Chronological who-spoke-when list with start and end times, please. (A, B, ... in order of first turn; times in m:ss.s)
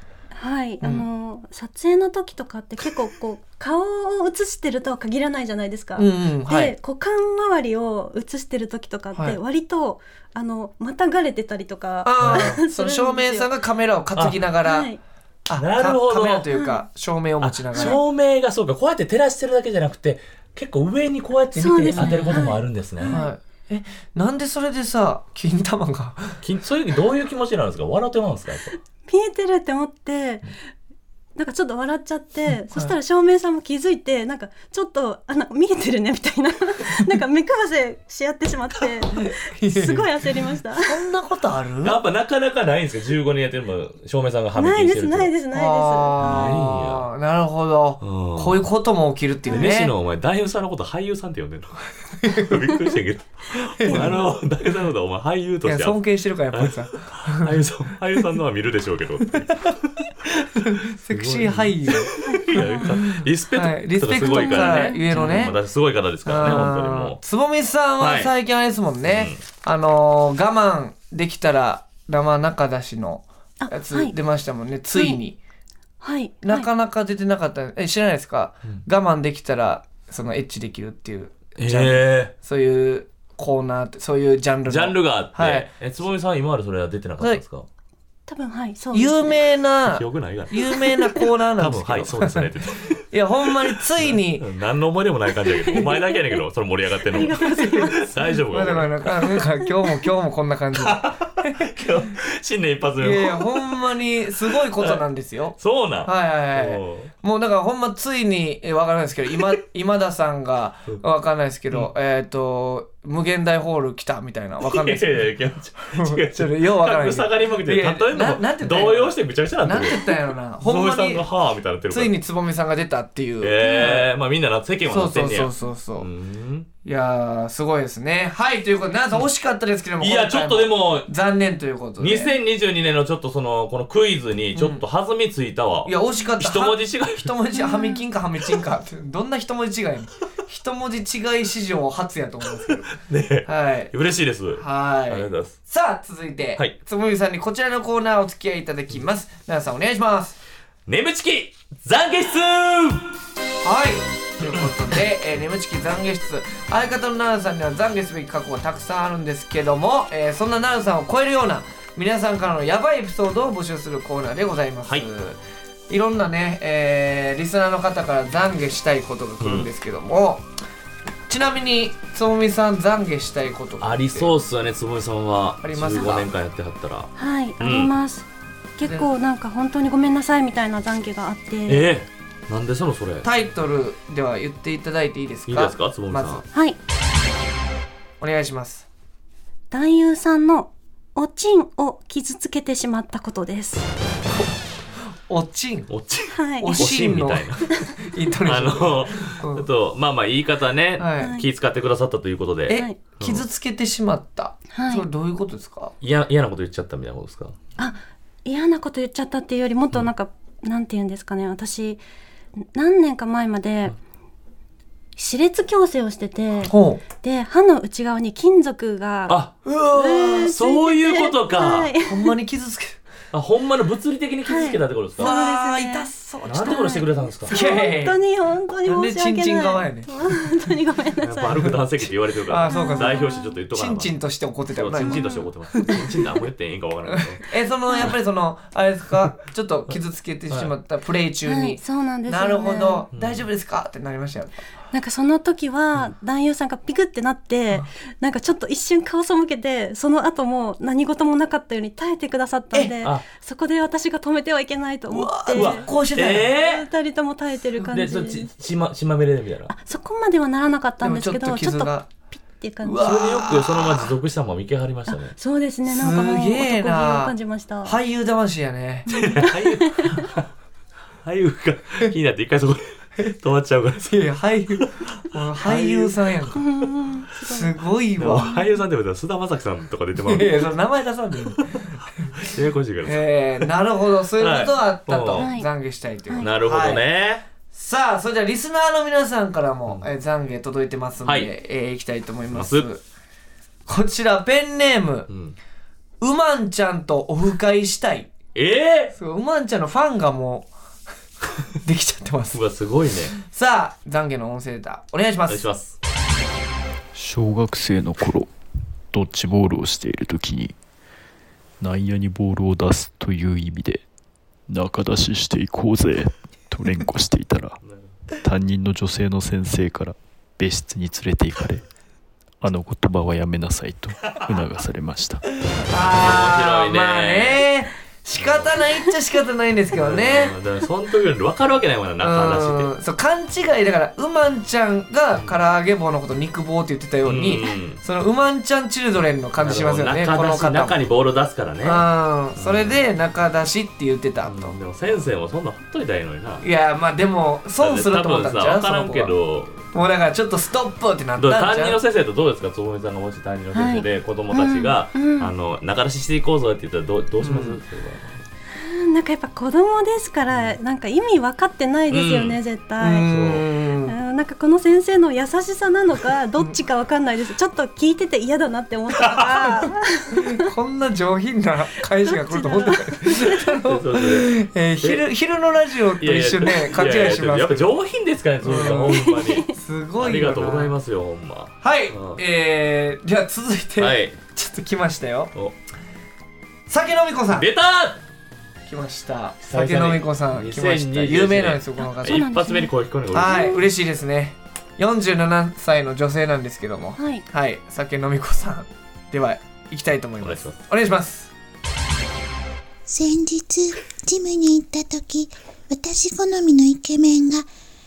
0:00.4-0:13.5 A
0:06.0-0:06.7 B
0:12.0-0:14.9 B
0:12.2-0:12.6 C
0:14.6-0:15.0 A
0:15.5-0:18.0 B
0:15.6-0:16.5 C
0:16.5-0:16.8 A
0:17.4-0:23.2 C
0:21.6-0:23.3 A
0:22.0-0:22.5 B
0:23.0-0:26.4 B
0:26.4-0:28.8 C
0:29.1-0:30.5 A
0:31.4-0:41.0 A
0:39.2-0:40.1 B
0:40.8-0:42.0 B
0:41.8-0:45.3 C
0:44.6-0:46.6 A
0:45.5-0:49.9 B
0:46.2-0:47.1 C
0:48.0-0:48.6 C
0:49.5-0:56.0 C
0:52.2-0:52.6 B
0:53.8-0:54.2 B
0:55.6-0:57.6 B
0:56.5-1:00.1 C
1:00.4-1:05.6 B
1:00.6-1:07.2 C
1:02.2-1:02.9 A
1:04.2-1:05.4 A
1:06.2-1:15.4 B
1:08.0-1:08.3 C
1:09.1-1:09.4 C
1:13.6-1:14.2 A
1:14.9-1:15.2 A
1:16.0-1:16.7 A
1:16.4-1:25.7 B
1:21.6-1:22.3 C
1:24.7-1:27.7 C
1:28.3-1:29.4 A
1:28.9-1:34.5 B
1:29.8-1:30.8 C
1:31.6-1:39.4 C
1:35.5-1:36.2 A
1:37.1-1:38.4 A
1:37.4-1:41.7 B
1:40.7-1:43.8 C
1:43.0-1:55.2 B
1:44.6-1:45.0 C
1:45.6-1:47.1 C
1:54.6-2:02.1 C
1:55.8-2:01.3 B
2:01.9-2:04.1 B
2:03.4-2:06.7 C
2:04.9-2:06.1 B
2:06.8-2:12.3 B
2:10.0-2:11.1 C
2:12.0-2:17.3 C
2:14.5-2:14.8 B
2:15.9-2:23.9 B
2:17.5-2:18.0 A
2:23.0-2:25.6 C
2:24.6-2:30.4 B
2:30.9-2:33.1 C
2:33.6-2:45.4 B
2:34.4-2:34.7 C
2:45.9-2:50.5 B
2:49.4-2:49.7 C
2:51.3-2:54.3 B
2:53.8-2:57.9 C
2:55.6-2:56.3 B
2:57.2-3:01.9 A
3:01.7-3:03.3 C
3:03.2-3:06.5 B
3:05.5-3:06.4 C
3:06.5-3:06.8 A
3:08.2-3:08.9 B
3:09.7-3:13.9 A
3:15.3-3:15.9 B
3:15.9-3:17.8 C
3:16.4-3:16.9 A
3:16.6-3:19.7 B
3:18.5-3:23.4 C
3:21.0-3:21.4 B
3:22.7-3:25.9 B
3:22.7-3:23.0 A
3:24.7-3:25.1 A
3:26.0-3:27.6 C
3:27.8-3:32.0 A
3:32.6-3:34.0 A
3:35.2-3:39.4 A
3:36.7-3:37.0 B
3:39.3-3:39.6 C
3:39.6-3:40.5 B
3:39.9-3:42.3 A
3:40.4-3:41.9 C
3:42.0-3:43.0 B
3:43.3-3:45.3 C
3:44.5-3:46.1 A
3:45.2-3:48.2 B
3:46.4-3:47.5 C
3:46.6-3:51.6 A
3:48.8-3:50.4 B
3:51.2-3:54.2 C
3:52.5-3:55.4 B
3:52.7-3:53.5 A
3:54.8-3:57.4 C
3:55.0-3:56.0 A
3:57.1-4:04.6 B
3:57.9-3:58.2 A
4:01.4-4:03.0 A
4:03.1-4:03.5 C
4:04.9-4:15.9 A
4:15.1-4:16.7 B
4:15.5-4:16.9 C
4:16.4-4:18.5 A
4:17.8-4:19.7 C
4:19.7-4:23.2 A
4:21.0-4:22.1 B
4:22.8-4:24.1 B
4:23.0-4:25.4 C
4:25.4-4:28.0 A
4:25.9-4:27.3 B
4:27.8-4:29.2 B
4:29.1-4:30.5 C
4:29.4-4:30.3 A
4:31.2-4:36.3 C
4:34.1-4:36.6 B
4:36.6-4:37.7 A
4:37.4-4:38.5 B
4:38.2-4:40.7 C
4:40.2-4:42.4 B
4:41.4-4:43.7 C
4:43.0-4:47.0 B
4:44.4-4:45.5 C
4:45.4-4:45.7 A
4:46.4-4:47.5 C
4:47.7-4:53.0 B
4:51.2-4:51.5 C
4:52.5-4:52.9 C
4:53.9-4:55.3 B
4:55.3-4:55.6 C
4:56.2-4:58.3 B
4:58.6-4:59.2 C
4:59.2-5:00.7 B
5:01.8-5:02.6 B
5:02.5-5:03.4 C
5:03.4-5:05.7 B
5:05.5-5:06.0 C
5:07.2-5:08.5 D
5:09.1-5:10.8 D
5:11.8-5:14.0 D
5:14.7-5:17.8 D
5:18.4-5:21.8 D
5:22.6-5:25.4 D
5:25.8-5:30.6 B
5:25.9-5:27.6 C
5:28.4-5:28.8 C
5:29.9-5:32.9 C
5:32.2-5:41.0 B
5:37.2-5:38.0 C
5:39.6-5:43.0 C
5:41.8-5:44.8 B
5:44.4-5:46.7 C
5:46.6-5:49.3 B
5:47.8-5:49.8 C
5:49.9-5:52.0 B
5:51.4-5:58.4 C
5:53.7-5:55.5 A
5:57.4-5:57.8 B
5:58.8-6:03.3 A
6:02.1-6:02.6 C
6:03.0-6:04.2 B
6:03.3-6:03.6 C
6:04.1-6:10.7 A
6:09.1-6:09.7 C
6:10.4-6:18.0 B
6:12.5-6:13.6 A
6:12.6-6:15.2 C
6:16.2-6:22.4 C
6:18.6-6:20.9 B
6:19.1-6:19.8 A
6:21.8-6:25.5 B
6:24.0-6:24.4 C
6:26.9-6:27.7 B
6:27.5-6:28.2 C
6:28.9-6:32.4 B
6:29.6-6:33.8 C
6:32.0-6:32.9 A
6:33.3-6:41.5 B
6:33.4-6:33.8 A
6:37.2-6:37.4 A
6:40.4-6:40.8 C
6:43.1-6:47.7 E